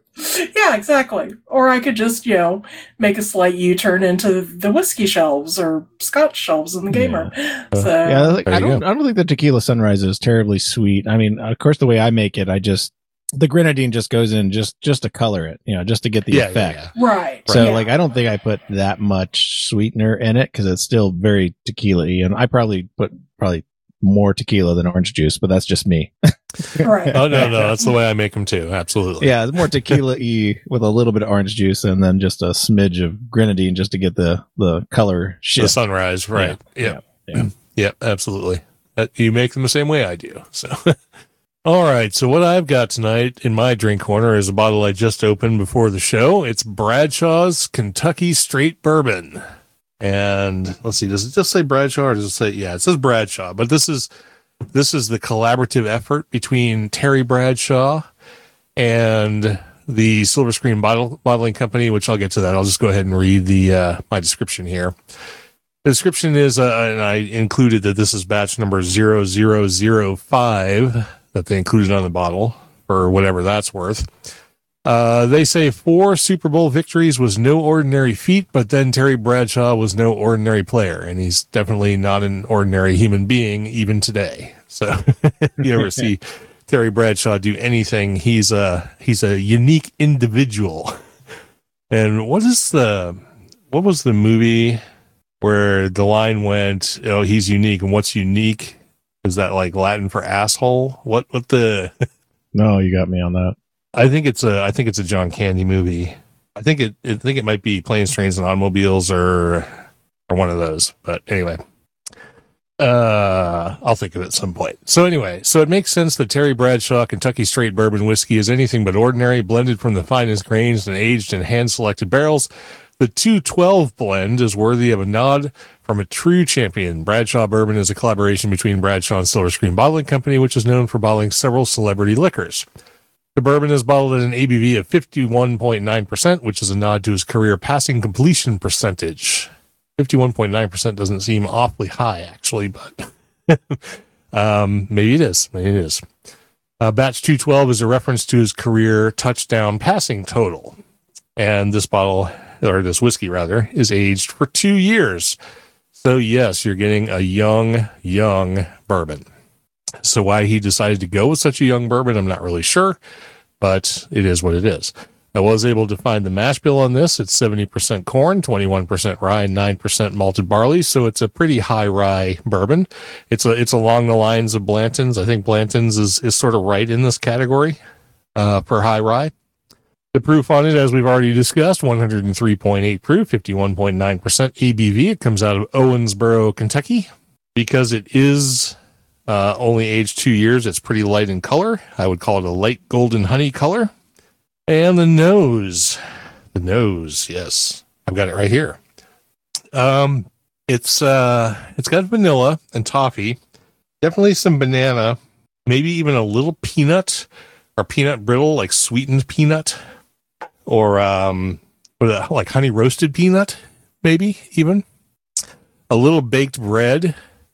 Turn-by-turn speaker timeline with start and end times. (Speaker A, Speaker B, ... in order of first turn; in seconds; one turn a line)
Speaker A: 0.2-8.4
Speaker B: 7.0-7.3
Speaker B: 8.0-16.8
Speaker C: 8.4-8.8
Speaker C: 16.3-16.9
Speaker A: 16.9-17.9
Speaker B: 17.5-27.8
Speaker A: 26.8-27.3
Speaker C: 27.1-30.0
Speaker B: 29.2-35.8
Speaker C: 35.6-41.0
Speaker B: 36.4-37.5
Speaker C: 41.6-49.4
Speaker C: 50.0-54.1
Speaker C: 54.7-58.0
Speaker C: 58.8-65.0
Speaker C: 65.8-74.1
Speaker C: 74.9-91.0
Speaker C: 91.9-94.8
Speaker C: 95.4-101.9
Speaker B: 102.5-103.5
Speaker C: 104.0-111.6
Speaker C: 112.8-122.5
Speaker C: 123.0-132.6
Speaker C: 133.3-146.0
Speaker C: 146.8-150.8
Speaker C: 151.4-155.4
Speaker C: 155.9-159.3
Speaker C: 160.0-163.0
Speaker C: 163.6-177.8
Speaker C: 178.4-179.3
Speaker C: 180.1-188.7
Speaker C: 189.3-193.9
Speaker C: 194.7-196.0
Speaker C: 196.5-198.8
Speaker C: 199.7-203.4
Speaker C: 204.0-209.8
Speaker C: 210.7-214.8
Speaker C: 215.9-217.1